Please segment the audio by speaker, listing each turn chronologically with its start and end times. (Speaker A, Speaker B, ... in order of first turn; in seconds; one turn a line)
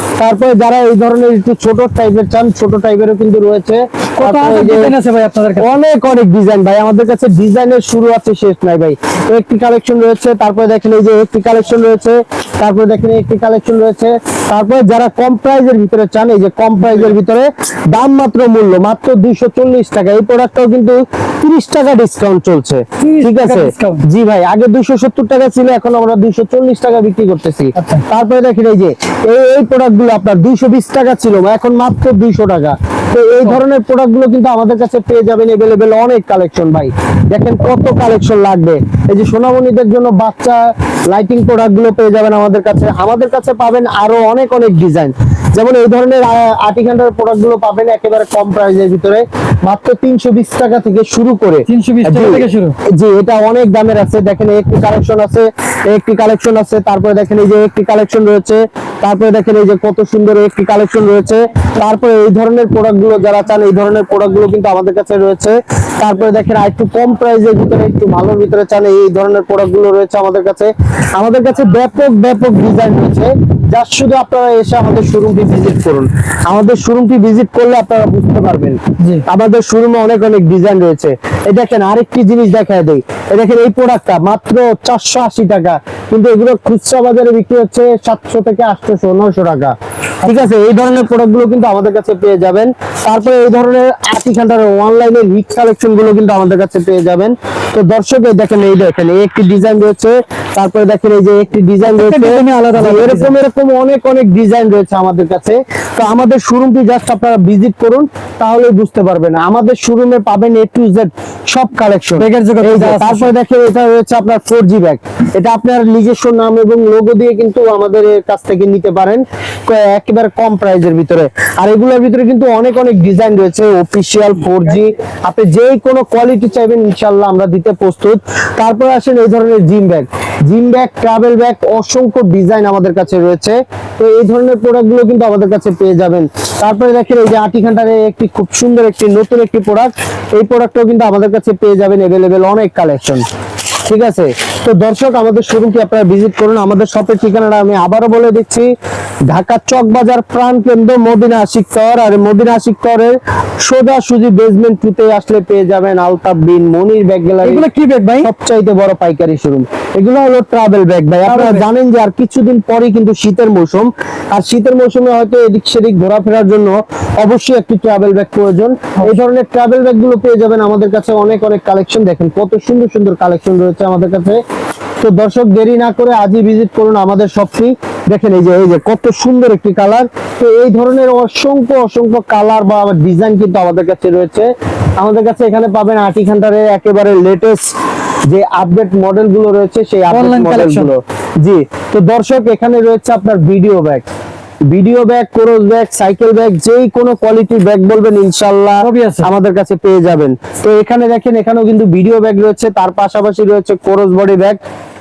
Speaker A: 0.2-4.9
Speaker B: 4.2-5.7
Speaker A: 5.6-143.2
Speaker B: 23.0-24.1
Speaker B: 27.8-28.0
Speaker B: 51.7-52.8
Speaker B: 79.0-79.2
Speaker B: 101.8-103.3
Speaker B: 112.2-113.3
Speaker A: 143.9-148.7
Speaker A: 149.3-157.7
Speaker B: 157.4-158.3
Speaker A: 158.2-174.4
Speaker B: 161.2-161.7
Speaker A: 175.0-187.7
Speaker A: 188.3-194.1
Speaker B: 190.1-190.9
Speaker A: 194.7-204.6
Speaker B: 198.8-199.3